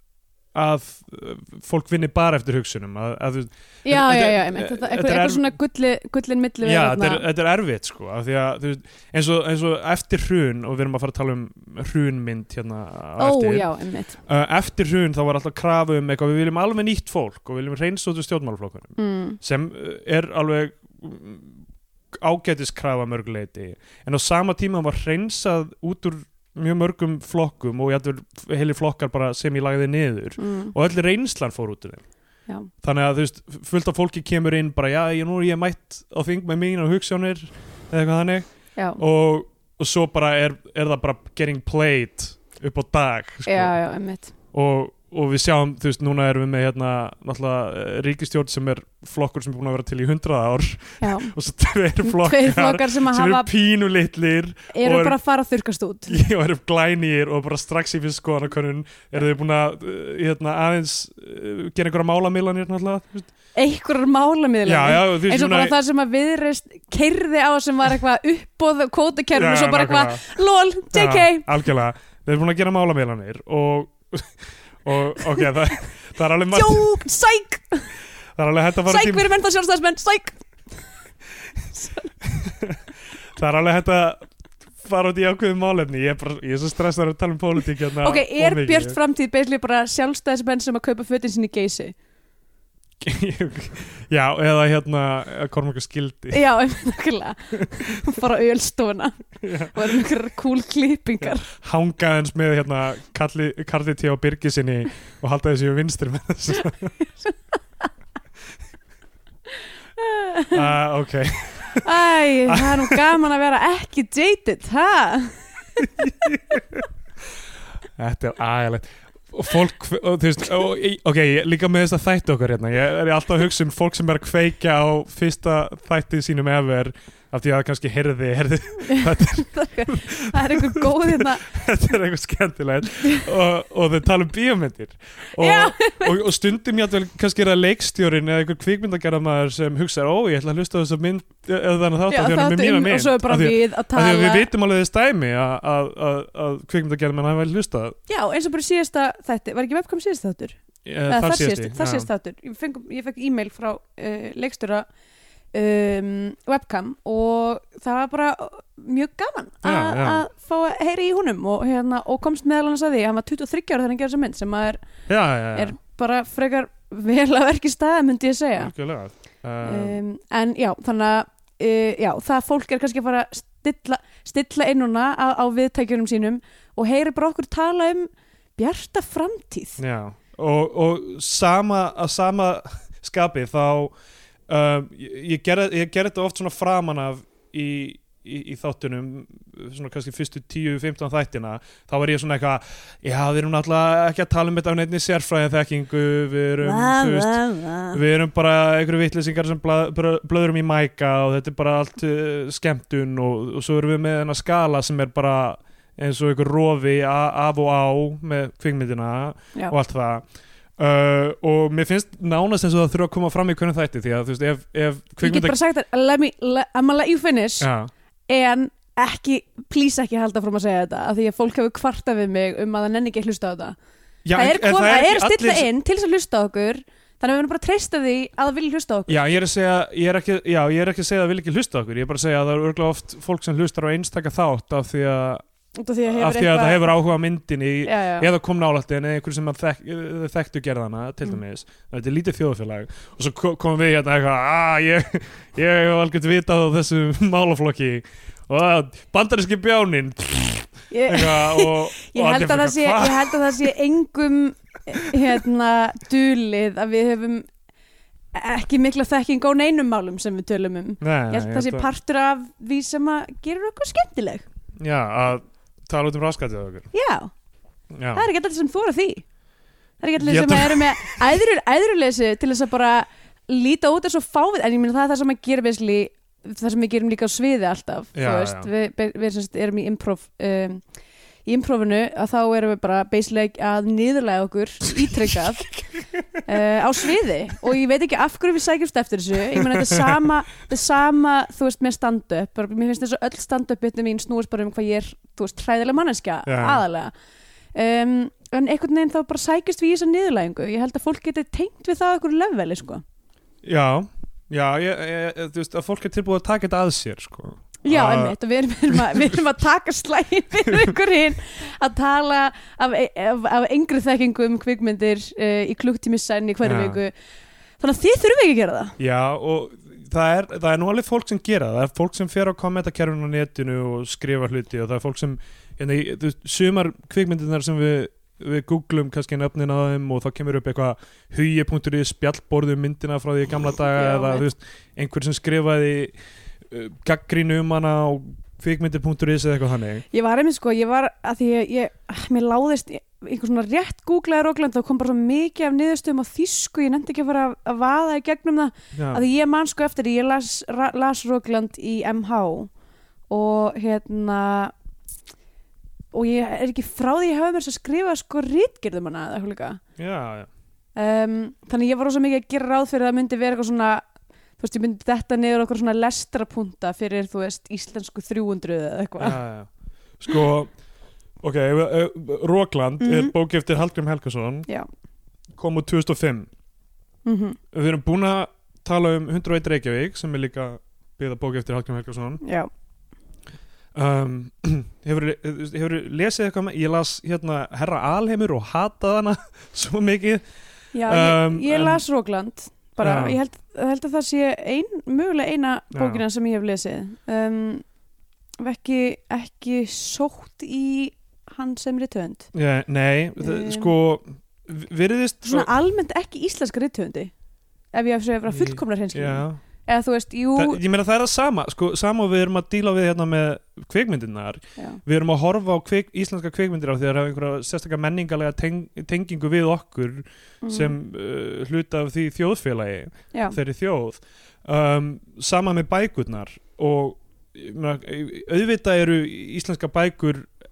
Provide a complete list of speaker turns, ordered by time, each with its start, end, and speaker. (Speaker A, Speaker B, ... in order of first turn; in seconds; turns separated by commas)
Speaker A: 0.5-5.5, Speaker B: 3.8-7.2, Speaker A: 6.6-13.7, Speaker B: 13.2-14.2, Speaker A: 14.3-21.6, Speaker B: 19.0-19.4, Speaker A: 22.1-32.0, Speaker B: 30.4-30.7, Speaker A: 32.8-38.5, Speaker A: 39.0-43.7, Speaker B: 43.5-44.3, Speaker A: 44.5-55.1, Speaker B: 51.0-51.3, Speaker B: 52.0-53.5, Speaker B: 54.7-56.2, Speaker A: 56.1-63.3, Speaker B: 63.5-71.5, Speaker A: 64.7-65.8, Speaker A: 69.3-70.2, Speaker A: 70.9-76.8, Speaker B: 76.5-77.9, Speaker A: 78.3-79.3, Speaker B: 78.8-80.4, Speaker B: 81.7-82.1, Speaker A: 82.2-84.2, Speaker A: 84.8-89.0, Speaker B: 88.0-91.9, Speaker A: 93.0-96.4, Speaker B: 96.3-101.5, Speaker A: 99.4-100.0, Speaker A: 101.2-107.0, Speaker B: 110.0-110.6, Speaker A: 110.5-113.0, Speaker B: 111.8-115.9, Speaker A: 115.8-116.8, Speaker A: 118.0-147.9, Speaker B: 128.8-131.4, Speaker B: 135.4-136.1, Speaker B: 142.1-144.5, Speaker B: 148.1-154.8, Speaker A: 150.8-152.1, Speaker B: 155.5-164.8, Speaker A: 159.6-160.2, Speaker A: 165.1-165.8, Speaker B: 165.5-168.7, Speaker A: 168.6-170.0, Speaker B: 169.6-179.8, Speaker A: 179.8-183.9, Speaker A: 184.5-210.2, Speaker B: 196.6-198.0, Speaker A: 210.8-215.6, Speaker B: 215.2-217.7, Speaker A: 217.6-217.9, Speaker B: 218.3-223.8, Speaker A: 224.2-225.7, Speaker B: 224.3-229.2, Speaker A: 229.1-235.4, Speaker B: 235.8-236.9, Speaker A: 236.1-253.6, Speaker B: 237.8-238.3, Speaker B: 250.9-257.5, Speaker B: 258.3-264.4, Speaker A: 261.0-261.9, Speaker A: 264.8-266.9, Speaker B: 266.9-267.3, Speaker A: 267.9-268.3, Speaker B: 268.1-269.2, Speaker B: 270.0-280.8, Speaker A: 270.2-271.2, Speaker A: 278.1-278.7, Speaker B: 281.4-285.7, Speaker A: 285.3-285.8, Speaker B: 286.4-297.1, Speaker A: 289.5-290.1, Speaker A: 296.4-296.8, Speaker B: 297.7-303.0, Speaker A: 303.6-308.4, Speaker B: 307.8-317.1, Speaker A: 308.9-309.4, Speaker A: 310.7-310.9, Speaker A: 316.6-317.0, Speaker B: 317.8-318.9, Speaker A: 319.0-336.1, Speaker B: 333.9-334.4, Speaker A: 336.7-340.0, Speaker B: 340.1-352.7, Speaker A: 348.9-349.2, Speaker B: 353.3-354.7, Speaker B: 356.1-359.8, Speaker A: 360.0-360.5, Speaker B: 360.9-364.1, Speaker B: 364.6-369.4, Speaker A: 369.2-370.7, Speaker A: 371.4-374.7, Speaker B: 373.0-373.3, Speaker A: 375.6-376.5, Speaker B: 377.2-377.6, Speaker A: 377.7-382.4, Speaker B: 382.4-382.7, Speaker A: 383.9-390.4, Speaker B: 390.9-397.8, Speaker A: 391.1-392.0, Speaker A: 393.0-393.4, Speaker A: 395.9-396.2, Speaker B: 398.6-402.5, Speaker A: 402.5-405.7, Speaker B: 403.4-403.9, Speaker B: 405.4-407.3, Speaker B: 407.9-410.8, Speaker A: 408.5-409.6, Speaker A: 410.6-430.5, Speaker B: 420.6-420.9